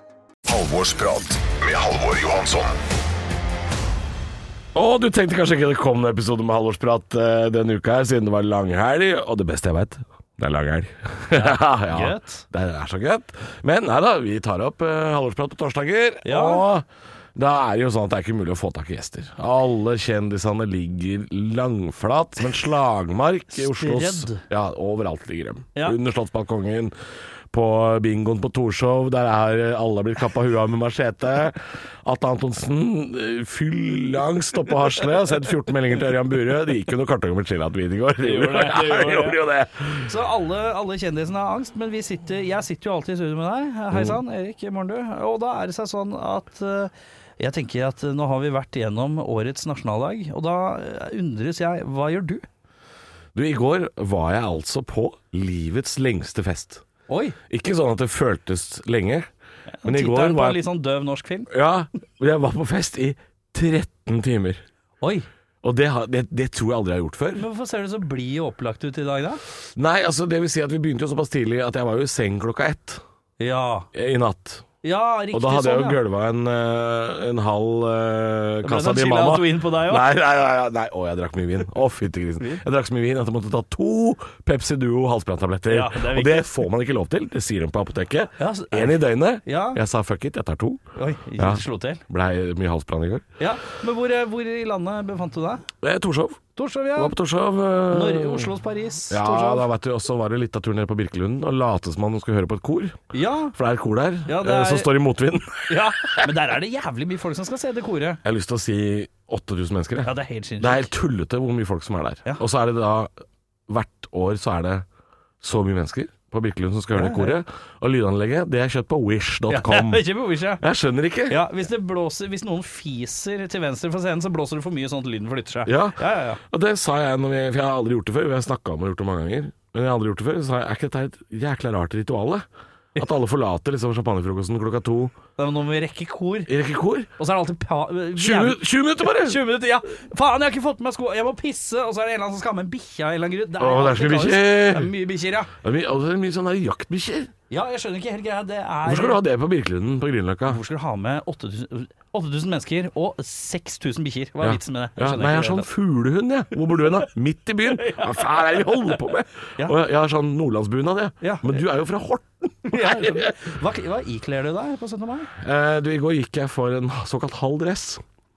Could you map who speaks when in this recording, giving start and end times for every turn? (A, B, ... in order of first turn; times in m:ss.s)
0:00.5-0:02.8 A
0:04.8-0:26.9 B
0:11.4-0:12.4 C
0:16.2-0:16.6 C
0:23.5-0:24.4 C
0:27.5-0:40.0 B
0:38.2-0:39.4 C
0:40.0-0:52.5 C
0:43.9-0:44.2 B
0:53.4-0:56.8 B
0:57.1-0:57.4 C
0:57.5-0:59.3 B
0:59.7-1:01.5 C
0:59.8-1:00.6 B
1:01.5-1:04.6 B
1:05.0-1:05.3 C
1:05.6-1:07.5 B
1:07.4-1:09.4 C
1:09.8-1:13.0 B
1:13.4-1:13.9 C
1:13.9-1:14.6 B
1:14.8-1:16.0 C
1:15.3-1:30.8 B
1:18.6-1:20.1 C
1:25.7-1:26.6 C
1:28.4-1:29.8 C
1:31.0-1:32.0 C
1:31.4-1:33.2 B
1:33.4-1:35.7 C
1:35.8-1:36.4 B
1:36.6-1:37.2 C
1:37.0-1:38.5 B
1:37.9-1:39.7 C
1:39.1-1:43.0 B
1:43.1-1:43.6 C
1:43.5-1:46.3 B
1:44.3-1:44.9 C
1:45.7-1:48.2 C
1:48.2-1:53.1 B
1:50.0-1:50.9 C
1:53.7-1:54.8 B
1:55.4-2:00.0 B
1:56.9-1:57.4 C
1:59.5-2:00.6 C
2:00.6-2:01.4 B
2:01.3-2:06.4 C
2:05.7-2:15.1 B
2:15.4-2:16.5 C
2:16.5-2:17.1 B
2:17.2-2:25.5 C
2:18.2-2:19.4 B
2:23.6-2:24.9 B
2:25.6-2:27.3 B
2:27.5-2:29.2 C
2:28.9-2:30.6 B
2:30.5-2:35.7 C
2:34.4-2:43.4 B
2:37.7-2:39.0 C
2:41.2-2:41.6 C
2:42.7-2:45.3 C
2:45.4-2:48.0 B